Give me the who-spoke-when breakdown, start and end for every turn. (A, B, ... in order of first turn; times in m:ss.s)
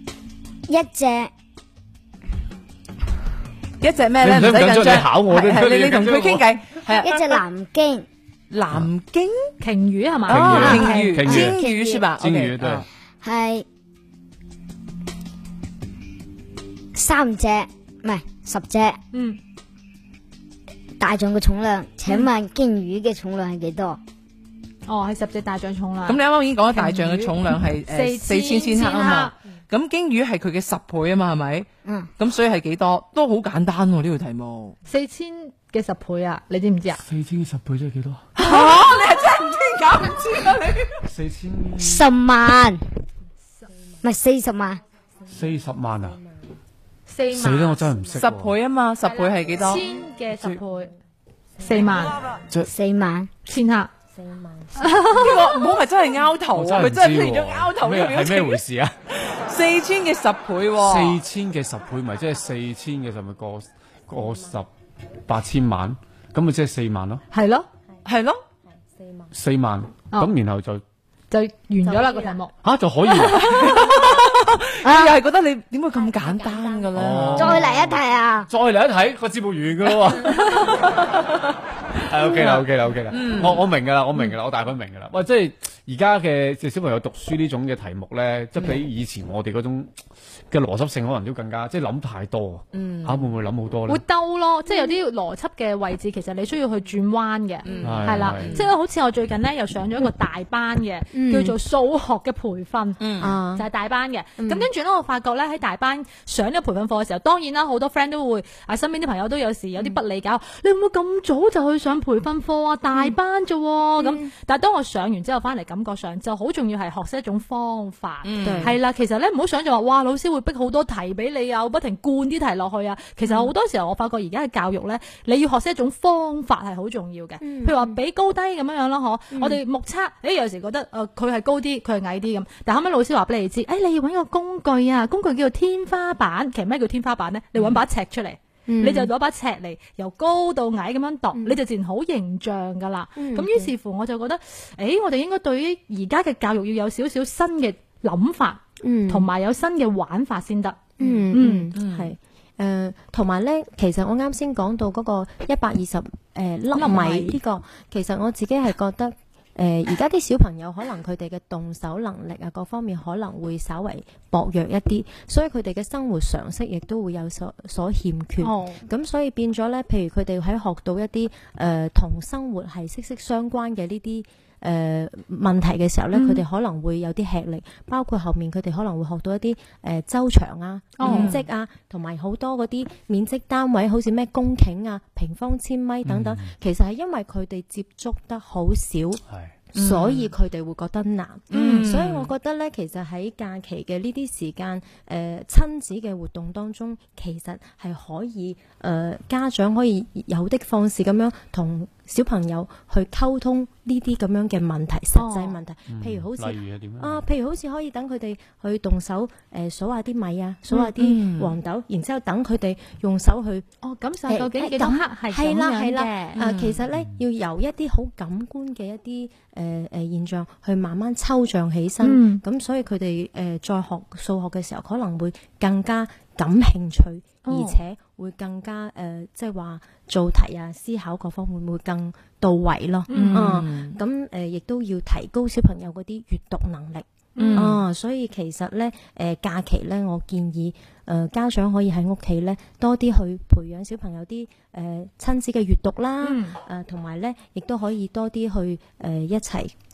0:00.7-0:01.3 A
0:03.8-0:07.4 B
0:04.2-0:06.5 C
0:06.9-0:08.0 A
0:08.5-0:09.5 B
0:09.6-0:11.3 D
0:10.3-0:11.6 C
0:10.3-0:12.8 B
0:11.2-0:12.0 A
0:12.2-0:12.8 C
0:13.2-0:13.6 A
0:16.9-0:19.0 A
0:19.1-0:19.4 D
0:21.0-0:24.0 A
0:24.9-0:29.3 D
0:26.0-0:34.8 B
0:34.9-0:37.0 D
0:37.0-0:38.3 C
0:38.3-0:41.0 B
0:41.0-0:42.0 C
0:41.8-0:42.8 A
0:44.0-0:44.8 A
0:45.3-0:46.2 C
0:47.1-0:48.0 D
0:47.3-0:48.5 C
0:48.2-0:49.8 B
0:49.1-0:50.9 D
0:51.6-0:52.2 D
0:52.7-0:53.3 A
0:53.5-0:53.9 D
0:54.1-0:55.1 E
0:54.8-0:55.5 D
0:55.1-0:58.6 B
0:56.5-0:58.9 C
0:59.2-1:01.2 B
1:00.8-1:04.7 C
1:05.3-1:07.2 C
1:07.3-1:07.7 D
1:08.0-1:08.4 B
1:08.7-1:09.3 E
1:09.3-1:10.8 C
1:11.3-1:12.5 D
1:11.8-1:12.4 E
1:12.6-1:13.8 C
1:13.1-1:13.6 D
1:13.3-1:17.6 B
1:14.8-1:15.2 A
1:15.9-1:17.1 E
1:16.9-1:20.7 C
1:17.4-1:18.5 A
1:17.7-1:18.0 E
1:20.2-1:20.7 D
1:22.0-1:29.9 C
1:22.2-1:23.6 B
1:30.5-1:34.0 C
1:32.7-1:33.3 B
1:33.9-2:31.7 D
1:37.6-1:38.7 B
1:37.8-1:38.6 C
1:41.1-1:41.6 E
1:43.0-1:43.4 B
1:43.2-1:43.7 E
1:44.4-1:44.7 E
1:54.0-1:54.3 E
1:58.2-1:58.8 B
1:58.4-1:58.8 E
2:03.2-2:03.5 E
2:07.4-2:08.0 E
2:09.3-2:09.6 E
2:18.7-2:19.1 E
2:23.2-2:23.7 E
2:28.8-2:29.3 E
2:31.0-3:09.2 E
2:31.7-2:32.1 B
2:36.7-2:37.4 D
2:48.4-2:48.8 D
2:56.1-2:56.4 D
3:01.0-3:01.4 D
3:01.0-3:01.4 B
3:06.0-3:06.5 C
3:09.7-3:33.6 E
3:09.7-3:10.3 B
3:11.5-3:12.3 B
3:11.5-3:12.0 D
3:25.1-3:25.6 D
3:25.9-3:27.2 C
3:30.7-3:31.6 B
3:33.8-3:36.4 D
3:34.3-4:09.7 E
3:36.4-3:36.8 B
3:42.0-3:42.4 D
3:47.4-3:47.8 D
3:53.1-3:53.6 D
3:53.1-3:54.0 B
3:57.4-3:57.8 D
3:57.4-3:57.8 B
4:06.2-4:06.6 D